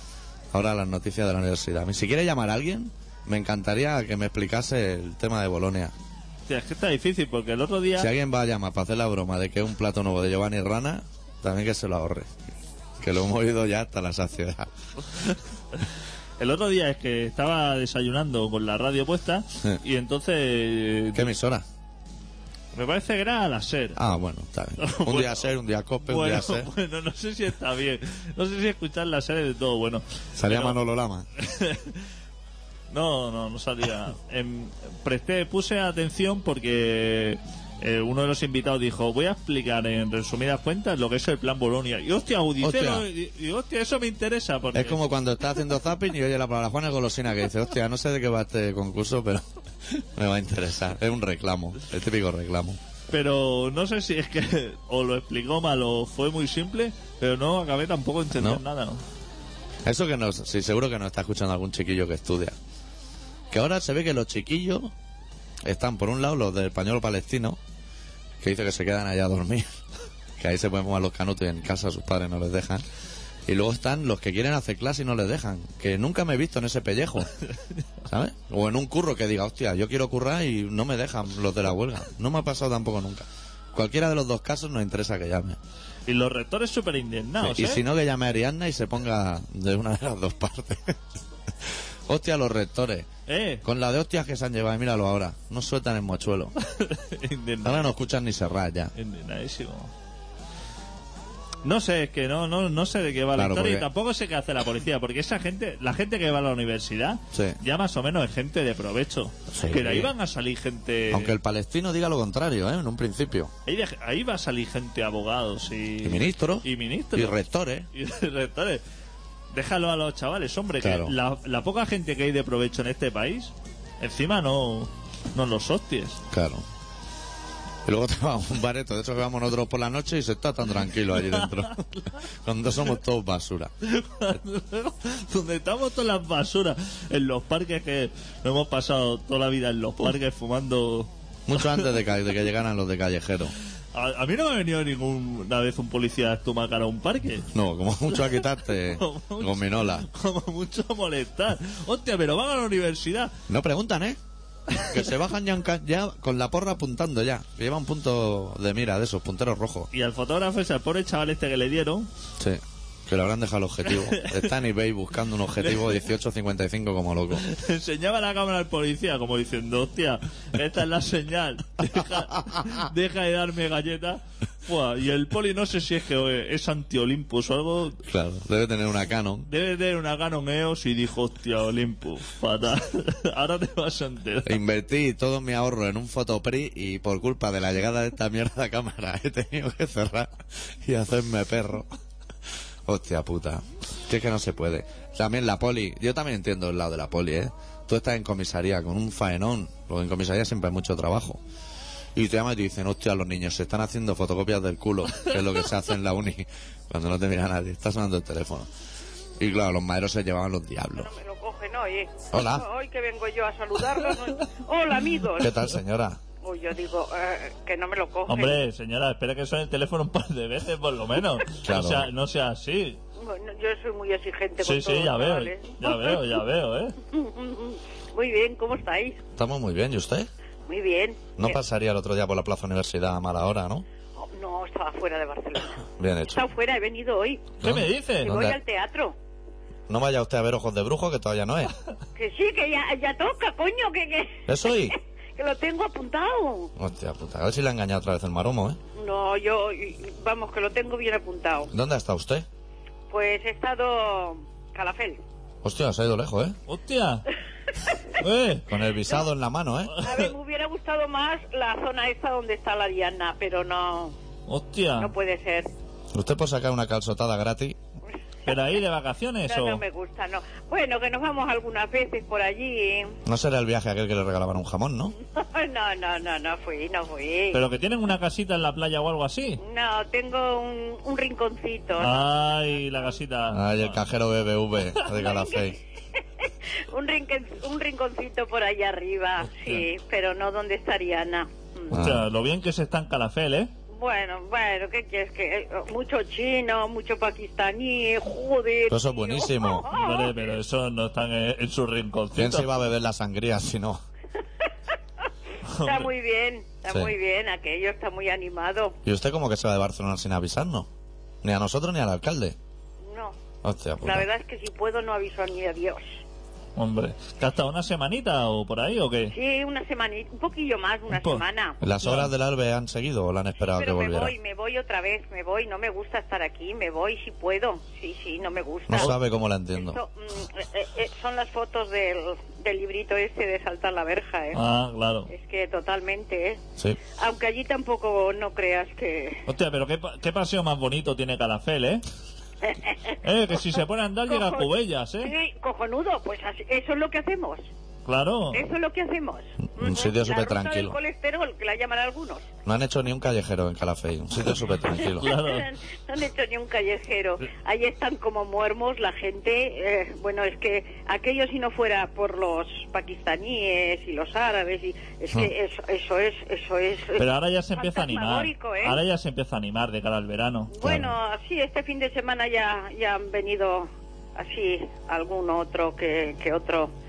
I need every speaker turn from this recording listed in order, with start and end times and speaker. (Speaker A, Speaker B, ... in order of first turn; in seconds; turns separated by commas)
Speaker A: 0.5-5.9, Speaker B: 6.5-8.1, Speaker A: 8.0-12.3, Speaker A: 13.0-14.7, Speaker B: 16.4-21.3, Speaker A: 21.1-21.6, Speaker B: 22.7-24.0, Speaker A: 23.9-26.7, Speaker B: 24.8-25.5, Speaker B: 26.1-30.8, Speaker A: 30.4-31.3, Speaker B: 31.4-32.0, Speaker B: 32.9-45.0, Speaker A: 42.6-43.1, Speaker A: 44.7-52.8, Speaker B: 53.1-59.0, Speaker A: 58.4-58.6, Speaker A: 59.8-62.5, Speaker A: 63.5-64.9, Speaker A: 65.6-67.6, Speaker A: 68.4-69.7, Speaker A: 70.4-72.8, Speaker A: 73.5-77.3, Speaker A: 78.0-85.6, Speaker B: 86.1-87.8, Speaker A: 87.4-91.0, Speaker A: 91.7-93.1, Speaker B: 93.3-93.6, Speaker A: 93.6-96.5, Speaker B: 96.6-97.9, Speaker A: 97.6-98.9, Speaker B: 98.9-99.9, Speaker B: 101.6-111.3, Speaker A: 103.3-103.9, Speaker A: 107.3-107.6, Speaker A: 109.5-110.1, Speaker A: 111.1-113.5, Speaker B: 113.7-117.3, Speaker A: 116.0-117.9, Speaker B: 117.9-118.8, Speaker B: 119.5-126.2, Speaker A: 120.8-121.1, Speaker A: 126.3-126.6, Speaker A: 127.8-131.8, Speaker B: 131.2-132.1, Speaker A: 132.4-133.7, Speaker B: 133.8-141.8, Speaker A: 141.5-143.5, Speaker B: 143.9-147.5, Speaker A: 147.5-150.1, Speaker B: 148.1-153.3, Speaker A: 153.5-154.2, Speaker A: 154.8-159.9, Speaker B: 159.9-162.1, Speaker A: 162.4-167.4, Speaker B: 163.9-164.4, Speaker B: 165.6-166.0, Speaker B: 167.4-178.0, Speaker A: 178.1-179.5, Speaker B: 179.5-184.6, Speaker A: 184.4-191.9, Speaker A: 192.8-201.4, Speaker A: 202.1-208.7, Speaker A: 209.4-211.1, Speaker C: 210.9-215.5, Speaker A: 212.3-212.7, Speaker A: 215.4-216.2, Speaker C: 216.4-218.6, Speaker B: 218.3-223.0, Speaker A: 221.6-222.1, Speaker C: 223.2-226.2, Speaker B: 224.6-226.9, Speaker C: 227.1-229.2, Speaker A: 229.3-230.3, Speaker C: 230.7-231.6, Speaker A: 231.4-233.8, Speaker C: 234.2-237.5, Speaker A: 236.0-236.4, Speaker B: 237.6-238.3, Speaker A: 237.6-238.6, Speaker C: 238.2-239.2, Speaker A: 239.9-241.7, Speaker C: 242.2-246.7, Speaker A: 244.5-244.9, Speaker A: 246.8-248.8, Speaker C: 248.9-251.7, Speaker A: 251.7-252.4, Speaker C: 253.1-255.2, Speaker A: 255.6-256.6, Speaker B: 256.7-257.2, Speaker B: 258.2-258.6, Speaker A: 258.7-260.0, Speaker C: 260.0-264.1, Speaker B: 264.5-265.1, Speaker C: 264.9-265.7, Speaker A: 266.1-267.8, Speaker B: 268.4-269.8, Speaker C: 269.4-273.2, Speaker A: 273.2-275.1, Speaker C: 275.2-277.6, Speaker B: 277.5-279.6, Speaker C: 279.6-283.1, Speaker B: 282.0-284.0, Speaker A: 283.5-285.8, Speaker C: 285.1-285.8, Speaker C: 286.4-291.9, Speaker B: 289.4-289.8, Speaker A: 291.9-292.2, Speaker B: 291.9-293.7, Speaker C: 293.9-300.5, Speaker A: 298.9-299.9, Speaker B: 299.9-302.8, Speaker A: 302.3-304.0, Speaker B: 305.7-306.1, Speaker C: 305.8-308.9, Speaker A: 309.0-310.9, Speaker A: 311.4-312.6, Speaker C: 313.0-313.4, Speaker A: 313.6-314.3, Speaker C: 314.0-316.2, Speaker B: 316.8-319.3, Speaker C: 319.3-321.8, Speaker B: 321.1-322.3, Speaker A: 321.8-324.3, Speaker C: 323.7-329.1, Speaker A: 328.9-330.0, Speaker C: 329.7-334.6, Speaker B: 334.5-335.3, Speaker C: 335.3-336.6, Speaker C: 337.2-339.4, Speaker B: 339.5-342.0, Speaker C: 342.6-344.7, Speaker B: 343.2-345.3, Speaker C: 345.2-347.6, Speaker B: 348.1-348.7, Speaker C: 348.5-352.4, Speaker A: 349.8-351.0, Speaker A: 352.6-355.3, Speaker B: 354.7-355.7, Speaker C: 355.1-369.0, Speaker B: 367.2-370.7, Speaker C: 370.7-376.9, Speaker A: 370.8-371.1